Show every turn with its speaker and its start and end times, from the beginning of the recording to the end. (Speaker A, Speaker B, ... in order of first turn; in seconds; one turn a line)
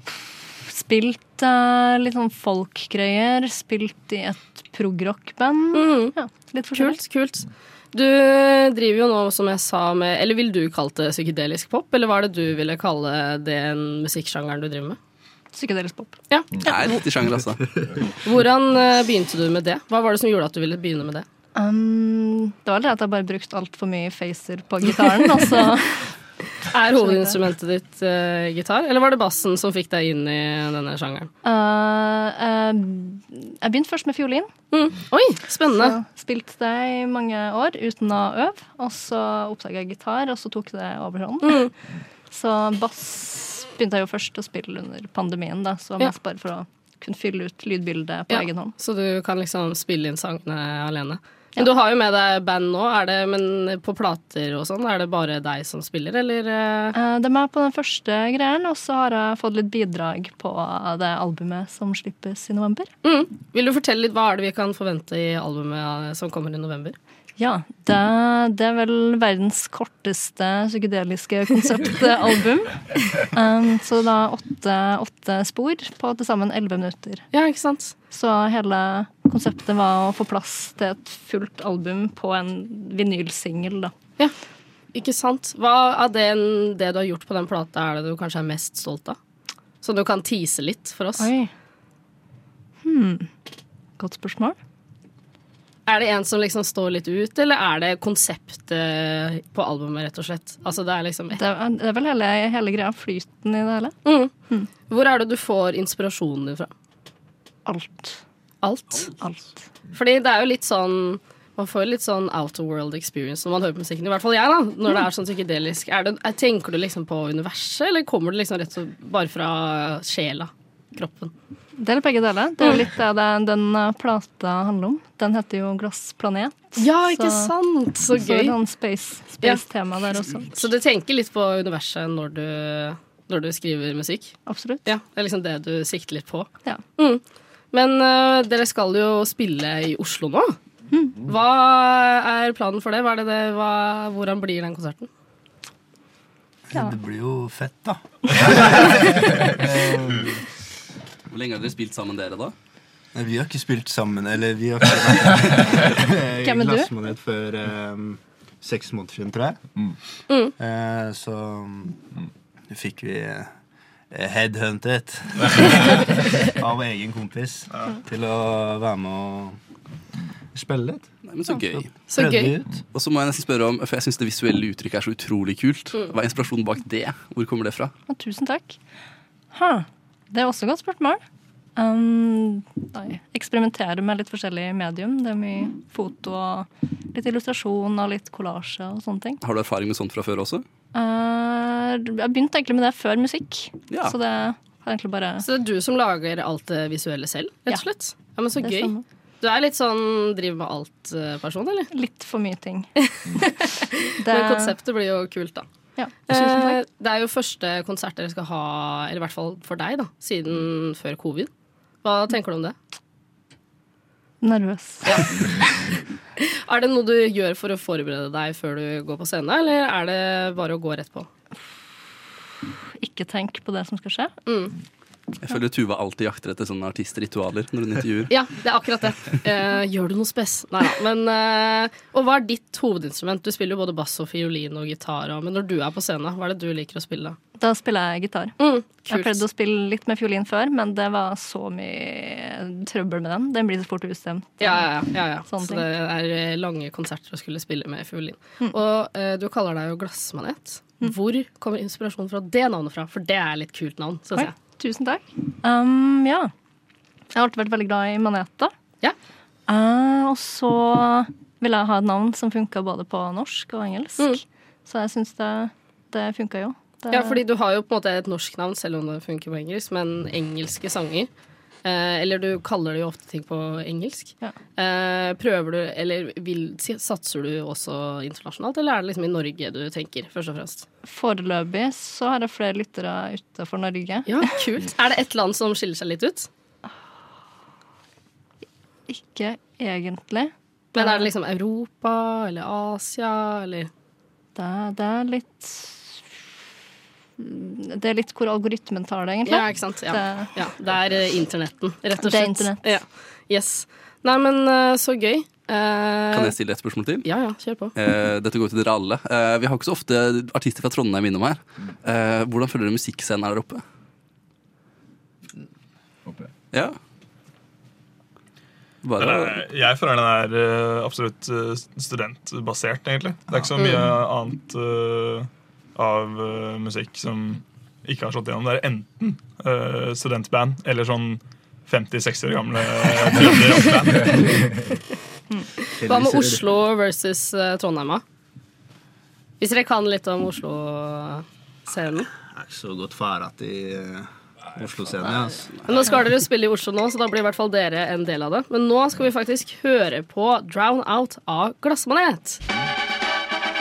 Speaker A: 0.7-7.0
Speaker B: 5.7-6.2
Speaker B: 6.7-15.0
Speaker A: 15.5-16.2
Speaker B: 16.3-17.0
Speaker C: 16.6-17.6
Speaker B: 18.2-21.3
Speaker A: 21.6-26.1
Speaker B: 26.7-31.3
Speaker A: 26.8-27.4
Speaker A: 31.4-34.5
Speaker B: 34.7-36.0
Speaker A: 35.7-41.7
Speaker B: 41.4-41.7
Speaker A: 42.3-48.7
Speaker B: 48.3-57.0
Speaker A: 56.9-62.9
Speaker B: 63.0-67.0
Speaker A: 67.4-77.2
Speaker B: 77.3-78.0
Speaker A: 78.1-83.9
Speaker B: 85.0-89.2
Speaker B: 89.8-91.3
Speaker A: 91.2-91.5
Speaker A: 92.8-93.3
Speaker A: 94.0-94.6
Speaker B: 95.9-101.4
Speaker A: 101.3-104.0
Speaker B: 104.0-104.3
Speaker B: 104.9-106.7
Speaker A: 107.7-108.2
Speaker B: 108.6-109.0
Speaker A: 109.2-109.6
Speaker B: 109.9-121.3
Speaker A: 121.8-127.5
Speaker B: 126.8-128.6
Speaker A: 128.1-130.6
Speaker B: 130.5-140.6
Speaker A: 134.5-134.9
Speaker A: 140.9-141.2
Speaker B: 141.2-145.1
Speaker D: 146.7-150.4
Speaker C: 151.3-152.5
Speaker D: 153.1-159.6
Speaker A: 156.4-156.9
Speaker D: 160.6-162.0
Speaker D: 162.7-163.5
Speaker D: 164.1-169.6
Speaker D: 170.5-172.8
Speaker C: 171.3-171.9
Speaker B: 172.1-172.5
Speaker C: 172.9-177.9
Speaker A: 178.1-178.8
Speaker A: 179.5-181.2
Speaker A: 181.8-189.4
Speaker C: 189.4-190.6
Speaker A: 190.9-195.5
Speaker C: 193.9-194.2
Speaker B: 195.4-201.9
Speaker A: 198.6-199.0
Speaker A: 201.9-204.8
Speaker B: 204.1-205.7
Speaker A: 206.0-206.8
Speaker B: 206.3-211.5
Speaker B: 212.0-212.8
Speaker A: 214.4-215.6
Speaker B: 216.4-221.3
Speaker A: 223.0-224.3
Speaker B: 224.5-224.7
Speaker C: 225.4-228.3
Speaker B: 228.3-237.4
Speaker A: 237.6-245.9
Speaker B: 238.6-239.4
Speaker B: 244.6-254.5
Speaker A: 254.3-256.5
Speaker A: 257.3-258.7
Speaker A: 259.7-267.4
Speaker B: 267.1-271.3
Speaker B: 271.9-280.9
Speaker A: 281.1-284.6
Speaker B: 284.3-286.5
Speaker A: 289.1-291.3
Speaker B: 290.9-293.9
Speaker A: 294.6-296.2
Speaker A: 297.4-300.6
Speaker B: 299.4-306.5
Speaker A: 302.2-302.9
Speaker C: 306.3-307.3
Speaker B: 307.2-307.9
Speaker C: 308.0-313.8
Speaker C: 316.7-317.0
Speaker C: 319.0-319.6
Speaker E: 319.2-334.7
Speaker D: 336.0-336.7
Speaker B: 336.0-338.2
Speaker B: 339.6-342.3
Speaker D: 342.4-345.8
Speaker B: 345.9-352.6